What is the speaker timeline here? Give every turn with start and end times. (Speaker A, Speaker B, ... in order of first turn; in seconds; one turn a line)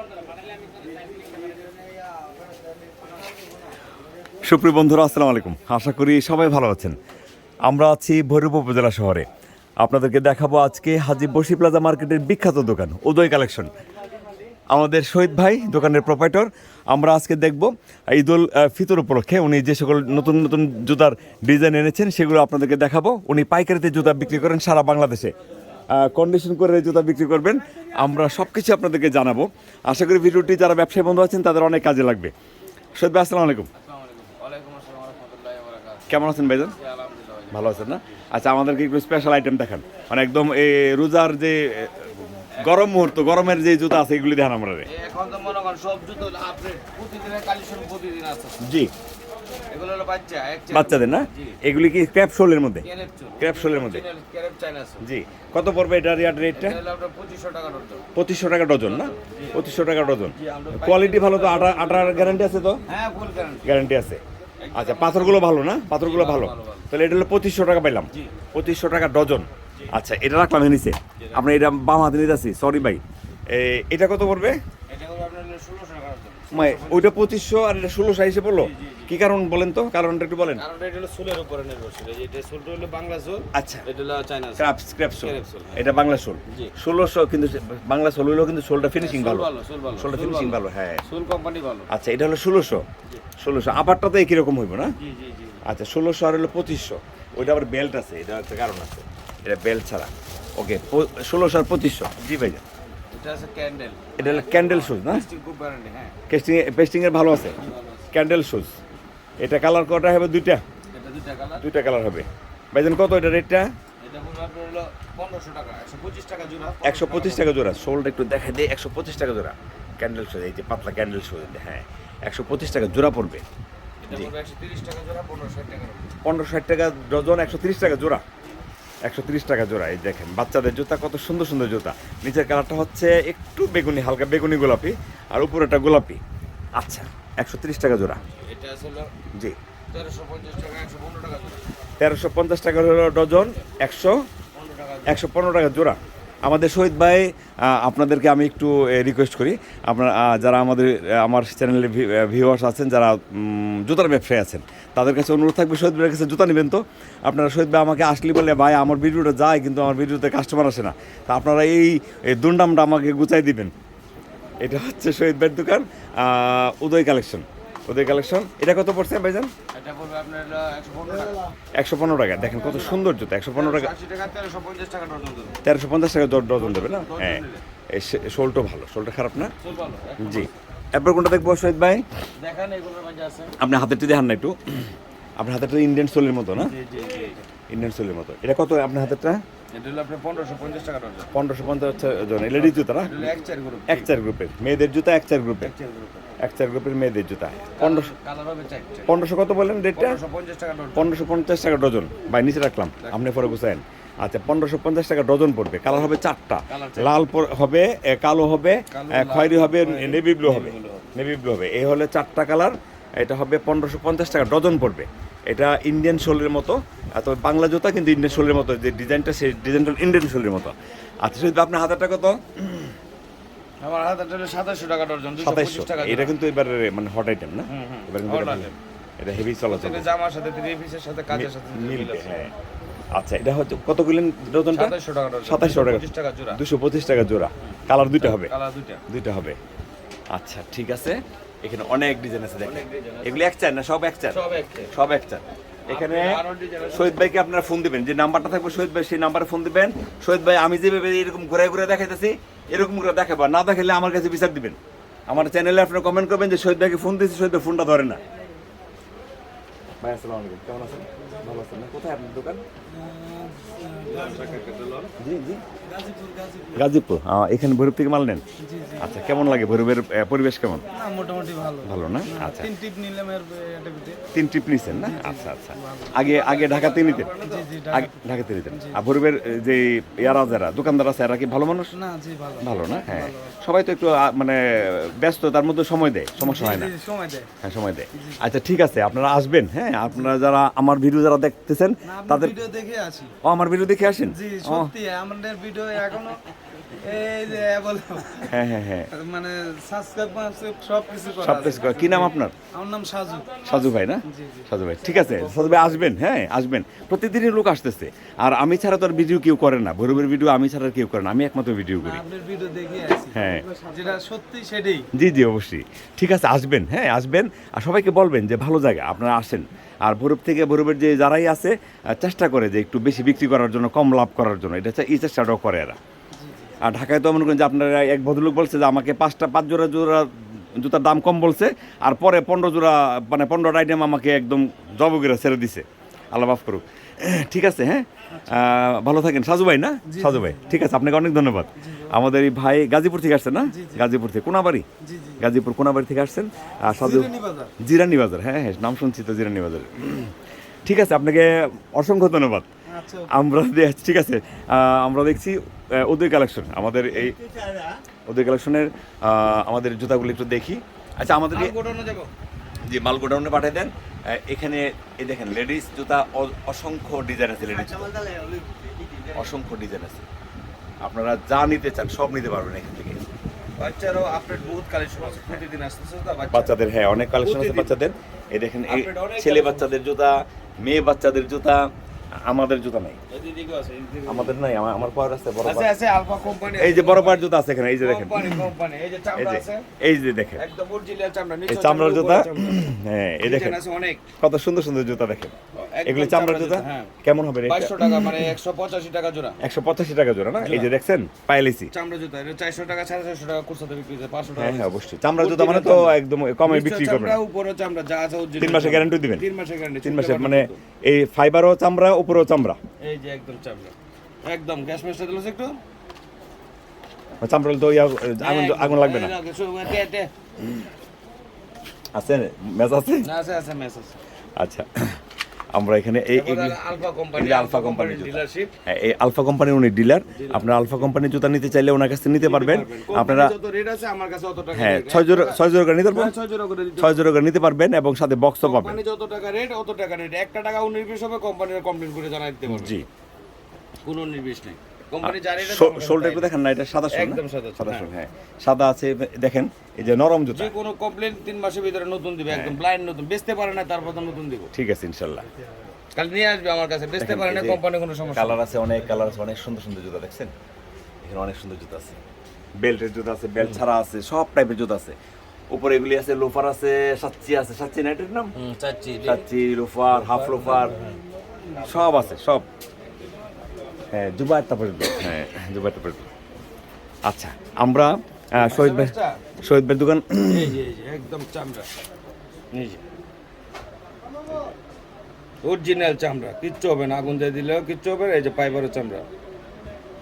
Speaker A: 0.2-1.3
Speaker B: 4.4-7.0
Speaker B: 7.6-9.3
Speaker B: 9.8-13.7
Speaker B: 14.7-25.3
Speaker B: 25.9-32.3
Speaker B: 33.0-33.7
Speaker A: 33.8-38.2
Speaker B: 36.1-36.7
Speaker B: 37.5-44.9
Speaker A: 42.6-43.0
Speaker A: 44.9-48.5
Speaker B: 48.6-48.9
Speaker A: 49.7-51.6
Speaker B: 50.7-52.9
Speaker A: 52.8-55.0
Speaker B: 53.4-54.0
Speaker B: 55.0-56.8
Speaker A: 56.5-58.0
Speaker B: 58.1-62.8
Speaker A: 58.8-59.6
Speaker A: 60.3-63.7
Speaker B: 63.6-64.2
Speaker A: 64.6-65.4
Speaker B: 64.7-74.6
Speaker A: 66.0-66.9
Speaker A: 74.9-77.1
Speaker B: 76.5-80.6
Speaker A: 78.6-79.1
Speaker A: 80.5-86.0
Speaker B: 83.5-83.8
Speaker B: 84.6-91.0
Speaker A: 89.0-91.9
Speaker B: 91.9-92.8
Speaker B: 93.4-94.9
Speaker A: 95.0-95.6
Speaker B: 95.7-102.6
Speaker A: 103.1-106.1
Speaker B: 104.2-105.3
Speaker B: 106.3-107.5
Speaker A: 107.6-108.1
Speaker B: 108.1-108.7
Speaker B: 109.4-110.6
Speaker A: 110.9-111.7
Speaker B: 111.6-113.7
Speaker A: 114.0-117.5
Speaker B: 116.8-123.4
Speaker A: 124.0-126.1
Speaker B: 126.2-128.2
Speaker B: 129.0-136.2
Speaker B: 136.8-138.2
Speaker A: 138.3-139.1
Speaker A: 139.9-141.6
Speaker B: 142.0-144.2
Speaker A: 144.5-145.2
Speaker B: 145.1-163.7
Speaker B: 164.6-169.5
Speaker A: 169.7-171.4
Speaker B: 171.8-173.9
Speaker A: 172.5-173.0
Speaker A: 173.5-175.5
Speaker B: 175.6-179.5
Speaker A: 176.6-177.6
Speaker A: 179.6-180.5
Speaker B: 180.2-182.0
Speaker A: 182.4-183.5
Speaker B: 183.6-186.7
Speaker A: 186.6-187.4
Speaker B: 187.7-189.4
Speaker A: 189.7-191.3
Speaker B: 191.3-193.3
Speaker A: 192.6-194.1
Speaker B: 193.9-195.7
Speaker A: 195.6-196.3
Speaker B: 196.4-198.1
Speaker A: 197.8-199.1
Speaker B: 199.1-200.2
Speaker A: 199.9-201.1
Speaker B: 200.9-222.9
Speaker A: 206.7-207.2
Speaker A: 208.9-211.1
Speaker A: 223.8-226.3
Speaker B: 225.4-230.1
Speaker A: 227.7-228.7
Speaker A: 229.6-232.4
Speaker B: 231.3-232.5
Speaker B: 233.1-238.5
Speaker A: 234.7-236.6
Speaker A: 238.2-239.0
Speaker B: 239.1-239.6
Speaker B: 240.3-244.4
Speaker A: 242.6-243.4
Speaker A: 244.3-244.9
Speaker B: 244.9-246.4
Speaker A: 245.9-247.3
Speaker B: 246.9-258.2
Speaker B: 260.0-262.6
Speaker C: 262.9-264.6
Speaker A: 264.1-265.1
Speaker B: 265.2-265.6
Speaker C: 265.9-266.8
Speaker B: 266.7-268.4
Speaker C: 268.6-269.1
Speaker B: 269.0-270.8
Speaker C: 270.9-274.2
Speaker B: 271.8-272.7
Speaker B: 274.3-277.3
Speaker C: 275.0-276.1
Speaker A: 276.2-277.7
Speaker C: 277.4-278.1
Speaker B: 277.9-281.9
Speaker C: 278.7-279.0
Speaker C: 281.9-283.5
Speaker B: 282.6-286.9
Speaker C: 286.4-287.5
Speaker B: 287.6-292.6
Speaker C: 288.1-288.4
Speaker C: 292.1-293.3
Speaker B: 293.4-294.9
Speaker C: 294.3-298.5
Speaker B: 298.5-299.1
Speaker C: 299.1-302.2
Speaker B: 301.4-302.5
Speaker C: 302.7-305.7
Speaker B: 303.6-312.2
Speaker C: 312.0-315.1
Speaker B: 313.3-313.6
Speaker B: 315.1-326.0
Speaker C: 326.4-326.7
Speaker B: 326.8-344.8
Speaker C: 338.3-338.6
Speaker C: 340.1-340.7
Speaker C: 341.8-342.1
Speaker C: 343.7-344.0
Speaker C: 345.0-345.4
Speaker B: 345.4-350.3
Speaker C: 346.9-347.7
Speaker B: 350.9-352.7
Speaker C: 352.9-353.3
Speaker B: 353.3-361.7
Speaker A: 361.5-362.3
Speaker B: 362.8-368.1
Speaker A: 368.4-369.5
Speaker B: 369.3-370.2
Speaker B: 371.0-373.2
Speaker A: 373.8-376.8
Speaker B: 376.5-381.8
Speaker A: 377.4-377.9
Speaker A: 378.9-380.0
Speaker B: 382.4-383.2
Speaker A: 383.3-384.6
Speaker B: 384.2-385.9
Speaker A: 385.6-387.5
Speaker B: 386.7-388.7
Speaker A: 388.0-389.9
Speaker B: 389.4-390.6
Speaker A: 390.6-392.8
Speaker B: 391.7-393.8
Speaker A: 393.4-394.2
Speaker B: 394.4-395.5
Speaker A: 395.7-397.1
Speaker B: 396.1-398.5
Speaker A: 397.6-399.6
Speaker B: 399.6-401.9
Speaker A: 400.6-400.9
Speaker A: 401.9-406.1
Speaker B: 404.5-407.4
Speaker A: 406.7-410.8
Speaker B: 408.6-409.4
Speaker B: 410.0-412.8
Speaker A: 413.0-413.9
Speaker A: 414.4-415.8
Speaker B: 417.4-419.3
Speaker A: 418.4-420.3
Speaker B: 422.1-423.3
Speaker A: 423.2-424.2
Speaker B: 424.6-425.2
Speaker B: 425.7-426.8
Speaker A: 426.3-428.7
Speaker B: 427.3-433.5
Speaker A: 430.3-431.0
Speaker A: 432.4-437.2
Speaker B: 434.7-436.3
Speaker B: 437.0-439.0
Speaker A: 438.6-442.9
Speaker B: 442.7-443.1
Speaker A: 444.0-446.5
Speaker B: 445.2-450.7
Speaker A: 447.1-448.1
Speaker A: 450.5-454.7
Speaker B: 452.5-452.8
Speaker B: 454.7-455.4
Speaker A: 456.1-458.6
Speaker B: 457.2-457.8
Speaker B: 458.3-460.5
Speaker B: 461.2-462.2
Speaker B: 462.8-465.1
Speaker B: 465.7-468.5
Speaker A: 468.5-469.4
Speaker B: 469.2-470.9
Speaker A: 470.2-471.1
Speaker A: 471.7-472.1
Speaker B: 471.8-472.6
Speaker B: 474.1-476.3
Speaker B: 477.2-480.8
Speaker A: 478.5-479.4
Speaker A: 480.5-481.9
Speaker A: 482.7-483.0
Speaker A: 485.6-489.2